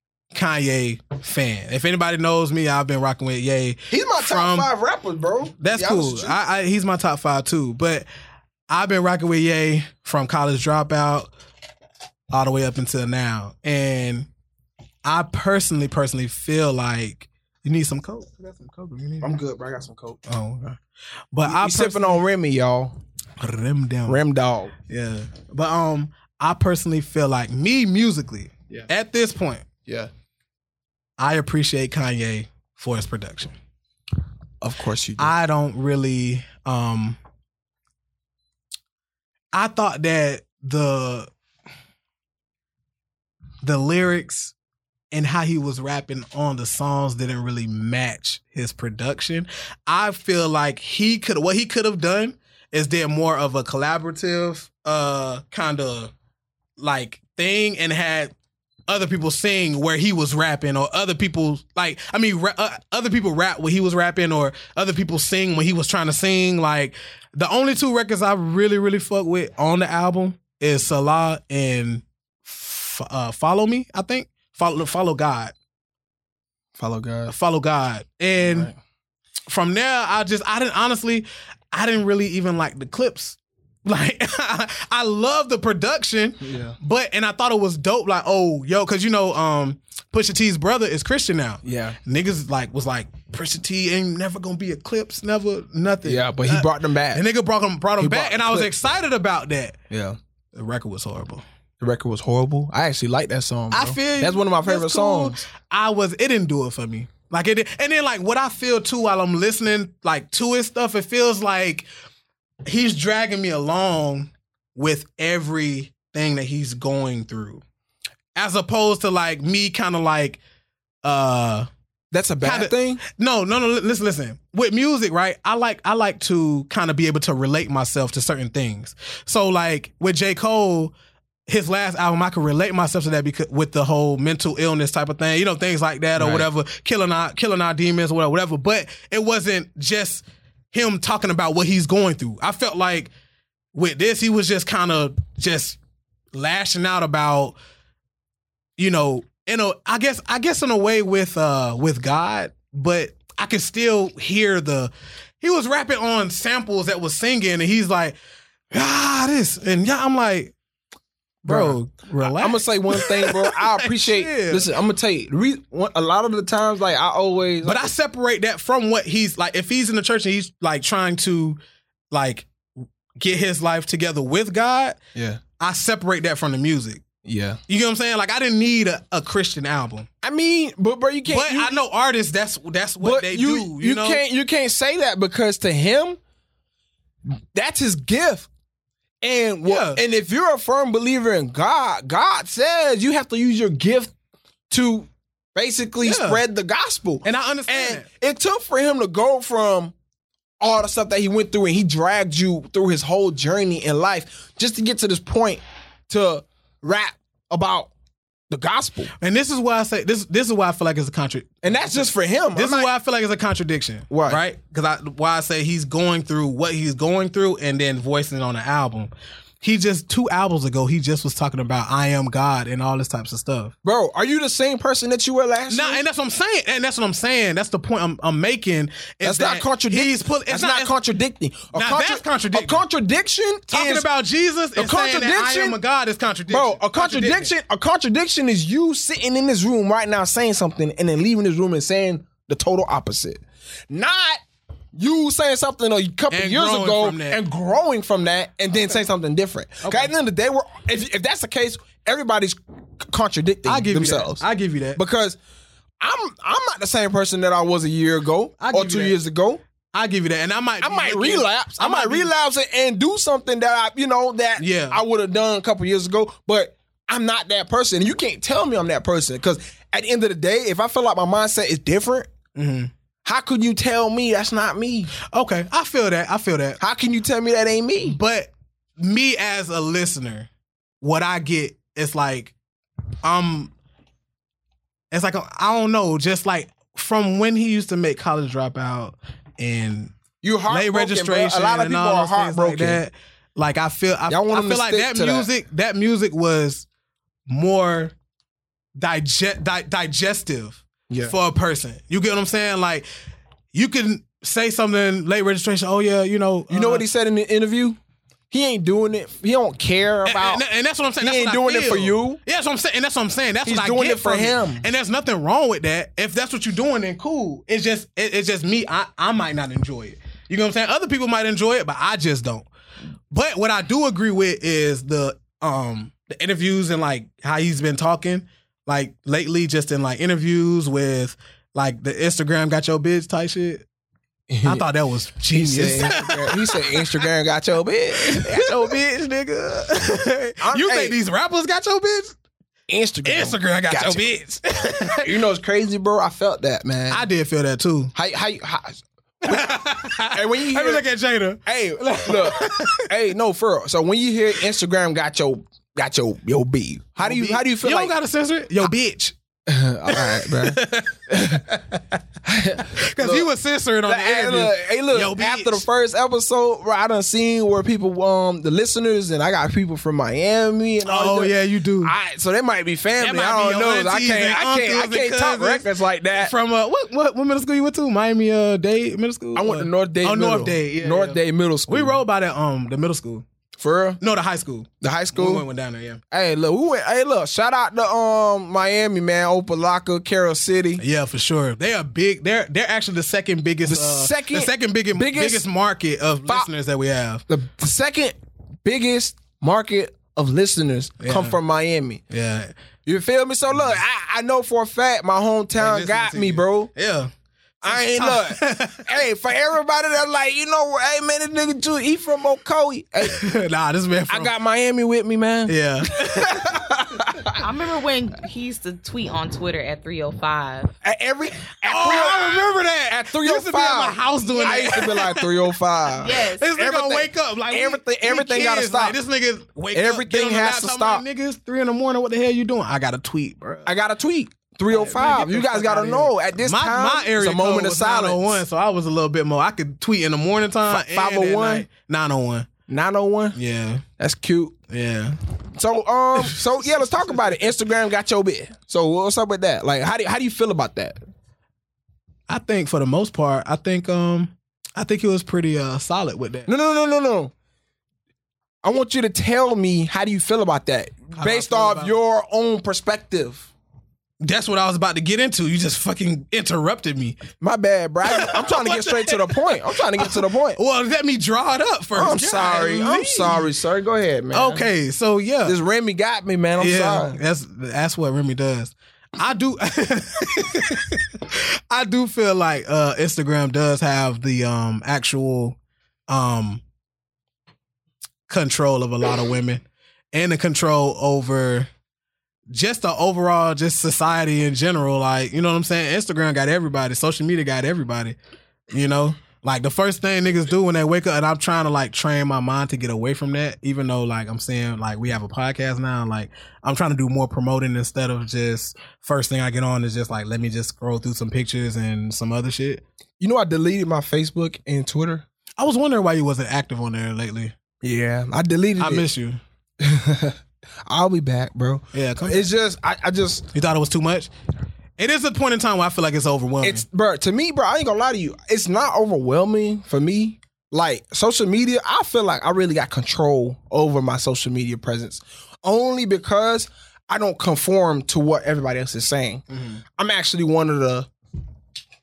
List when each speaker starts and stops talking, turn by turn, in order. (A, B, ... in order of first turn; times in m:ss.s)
0:00.3-0:04.7 A
0:03.9-0:06.4 B
0:05.6-0:08.0 A
0:08.7-0:11.3 A
0:12.3-0:14.3 A
0:15.0-0:19.3 A
0:19.2-0:20.2 B
0:20.3-0:20.8 A
0:21.3-0:22.2 A
0:21.4-0:23.0 B
0:23.4-0:24.2 A
0:24.1-0:24.7 B
0:24.8-0:29.7 A
0:31.2-0:33.5 A
0:34.6-0:35.3 B
0:35.2-0:37.2 A
0:39.5-0:41.3 A
0:43.6-0:44.5 A
0:45.1-0:56.1 A
0:56.8-0:58.3 A
0:58.9-1:15.5 A
1:16.8-1:17.3 B
1:17.3-1:18.7 A
1:18.4-1:18.8 B
1:19.5-1:39.8 A
1:26.4-1:26.8 B
1:31.6-1:32.0 B
1:36.0-1:37.2 B
1:38.0-1:38.7 B
1:39.9-1:40.2 B
1:40.5-1:41.4 A
1:41.8-1:45.4 B
1:43.7-1:51.9 A
1:52.6-1:57.6 A
1:58.3-2:00.4 A
2:01.0-2:01.7 A
2:02.1-2:03.0 B
2:02.4-2:10.9 A
2:11.5-2:23.1 A
2:16.2-2:16.5 B
2:23.7-2:25.8 A
2:26.3-2:27.6 A
2:28.8-2:38.2 A
2:38.7-2:40.5 A
2:41.4-2:47.9 B
2:41.4-2:44.6 A
2:47.6-2:51.6 A
2:52.1-2:55.0 A
2:55.1-2:55.4 B
2:55.6-2:57.0 A
2:57.2-2:57.6 B
2:57.7-3:00.1 A
3:00.2-3:01.7 B
3:01.3-3:04.2 A
3:03.0-3:06.2 B
3:07.2-3:08.5 B
3:09.2-3:14.1 B
3:09.6-3:10.0 A
3:14.7-3:19.9 B
3:16.0-3:16.4 A
3:17.2-3:18.0 A
3:20.6-3:27.9 B
3:28.5-3:29.1 B
3:29.2-3:43.7 A
3:31.6-3:32.9 B
3:34.1-3:34.4 B
3:43.8-3:46.0 B
3:45.7-3:50.9 A
3:49.2-3:54.1 B
3:51.7-3:52.8 A
3:53.7-3:57.5 A
3:54.7-3:55.8 B
3:56.5-4:04.4 B
4:04.9-4:14.4 B
4:06.3-4:07.4 A
4:09.8-4:10.1 A
4:13.6-4:15.0 A
4:14.9-4:15.4 B
4:16.0-4:19.6 B
4:18.6-4:19.2 A
4:19.9-4:22.3 A
4:20.8-4:32.3 B
4:24.6-4:25.0 A
4:32.5-4:32.9 A
4:33.2-4:35.1 B
4:35.2-4:36.8 A
4:36.8-4:38.2 B
4:38.0-4:40.5 A
4:41.0-4:42.5 A
4:43.2-4:43.7 A
4:45.1-4:50.1 A
4:50.4-4:53.0 B
4:50.7-4:56.8 A
4:54.3-4:55.5 B
4:57.5-4:58.1 A
4:59.0-5:03.1 A
5:01.1-5:01.3 B
5:03.7-5:07.0 A
5:06.7-5:08.0 B
5:08.5-5:10.6 B
5:10.2-5:22.7 A
5:11.2-5:12.4 B
5:13.6-5:14.8 B
5:23.3-5:33.8 A
5:34.5-5:34.8 B
5:34.6-5:37.2 A
5:35.5-5:39.0 B
5:38.2-5:42.4 A
5:40.6-5:41.1 B
5:42.9-5:44.3 B
5:43.2-5:45.3 A
5:45.1-5:47.2 B
5:47.1-5:48.1 A
5:48.1-5:49.8 B
5:49.4-5:53.1 A
5:50.3-5:51.0 B
5:51.6-5:58.1 B
5:57.2-5:59.4 A
5:59.6-6:01.6 B
6:00.1-6:02.0 A
6:02.4-6:03.5 B
6:02.9-6:05.8 A
6:04.0-6:16.5 B
6:11.0-6:12.1 A
6:13.2-6:15.8 A
6:16.4-6:23.4 A
6:19.5-6:22.2 B
6:23.8-6:24.2 B
6:24.2-6:26.2 A
6:25.0-6:25.6 B
6:26.3-6:31.0 B
6:31.0-6:37.4 A
6:33.8-6:35.6 B
6:37.5-6:42.2 B
6:41.2-6:41.6 A
6:42.3-6:42.7 A
6:43.0-6:46.9 B
6:45.8-6:47.3 A
6:47.8-6:53.4 B
6:47.8-6:49.1 A
6:53.2-6:54.5 A
6:54.3-6:57.6 B
6:55.7-6:56.8 A
6:57.5-7:00.9 C
7:01.0-7:09.2 B
7:01.8-7:05.5 A
7:04.5-7:05.1 C
7:06.2-7:06.7 C
7:06.4-7:13.9 A
7:09.9-7:11.2 B
7:13.8-7:18.6 B
7:14.9-7:22.7 A
7:20.9-7:21.9 B
7:22.9-7:23.6 B
7:23.5-7:24.0 A
7:24.2-7:24.7 B
7:24.9-7:25.4 A
7:25.7-7:31.2 B
7:26.4-7:27.7 A
7:32.5-7:36.7 A
7:36.6-7:37.5 B
7:38.8-7:43.7 B
7:41.3-7:42.1 A
7:44.4-7:47.4 A
7:47.6-7:50.8 B
7:48.3-7:53.6 A
7:52.1-7:54.8 B
7:54.5-7:55.8 A
7:55.6-7:57.4 B
7:56.8-8:05.8 A
8:06.3-8:06.8 A
8:08.5-8:11.9 A
8:12.7-8:18.4 A
8:18.9-8:33.0 A
8:33.4-8:35.4 B
8:35.8-8:37.7 A
8:38.0-8:39.2 B
8:39.0-8:39.6 A
8:40.0-8:43.7 B
8:42.1-8:42.7 A
8:43.7-8:44.5 A
8:45.2-8:47.0 A
8:46.8-8:59.6 B
8:59.7-9:00.0 A
9:00.2-9:01.3 B